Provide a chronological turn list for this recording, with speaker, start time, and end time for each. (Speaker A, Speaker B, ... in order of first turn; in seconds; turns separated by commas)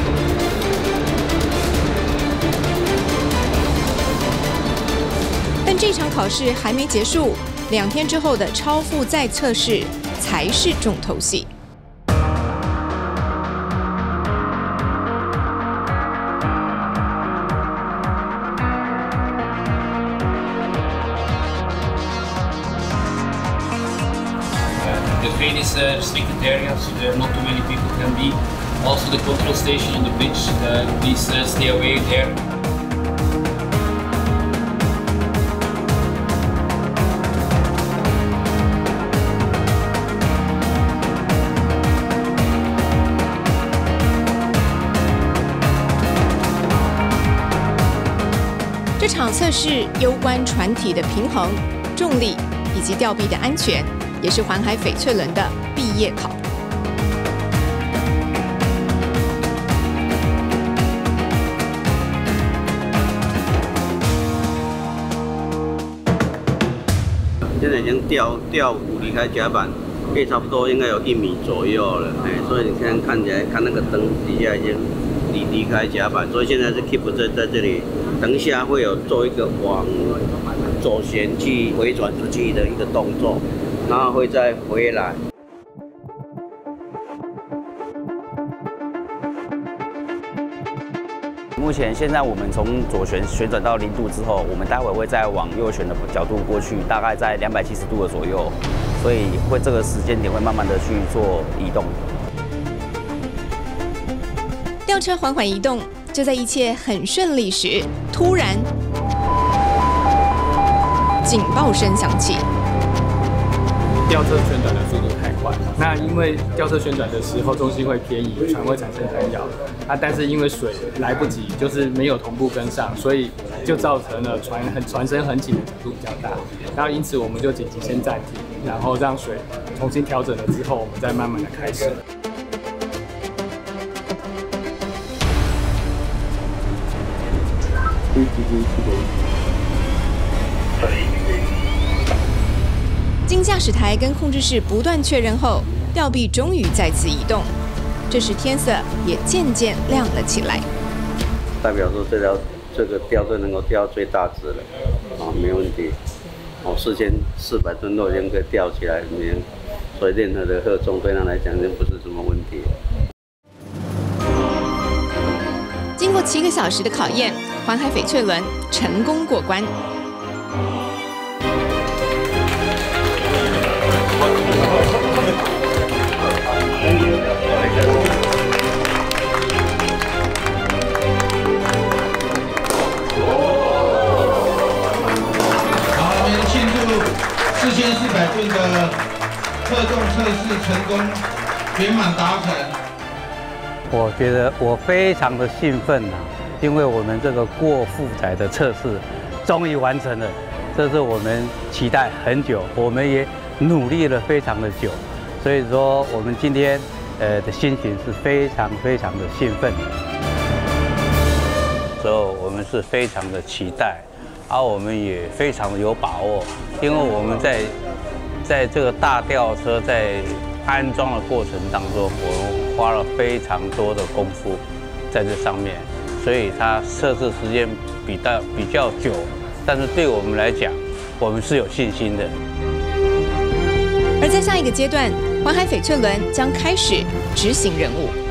Speaker A: 5.6-11.5, Speaker B: 24.8-32.4, Speaker A: 49.0-56.4, Speaker C: 67.6-80.2, Speaker C: 80.8-85.2, Speaker D: 91.6-102.0, Speaker A: 104.9-108.7, Speaker A: 111.2-112.5, Speaker E: 114.1-132.0, Speaker A: 143.3-147.5, Speaker A: 148.1-150.7, Speaker C: 151.6-154.7, Speaker C: 155.2-155.9, Speaker C: 156.6-162.7, Speaker A: 166.0-169.7, Speaker F: 185.9-189.0, Speaker F: 189.7-191.2, Speaker F: 191.7-192.7, Speaker G: 193.9-209.9, Speaker G: 212.0-217.8, Speaker G: 218.4-232.3, Speaker A: 234.2-238.2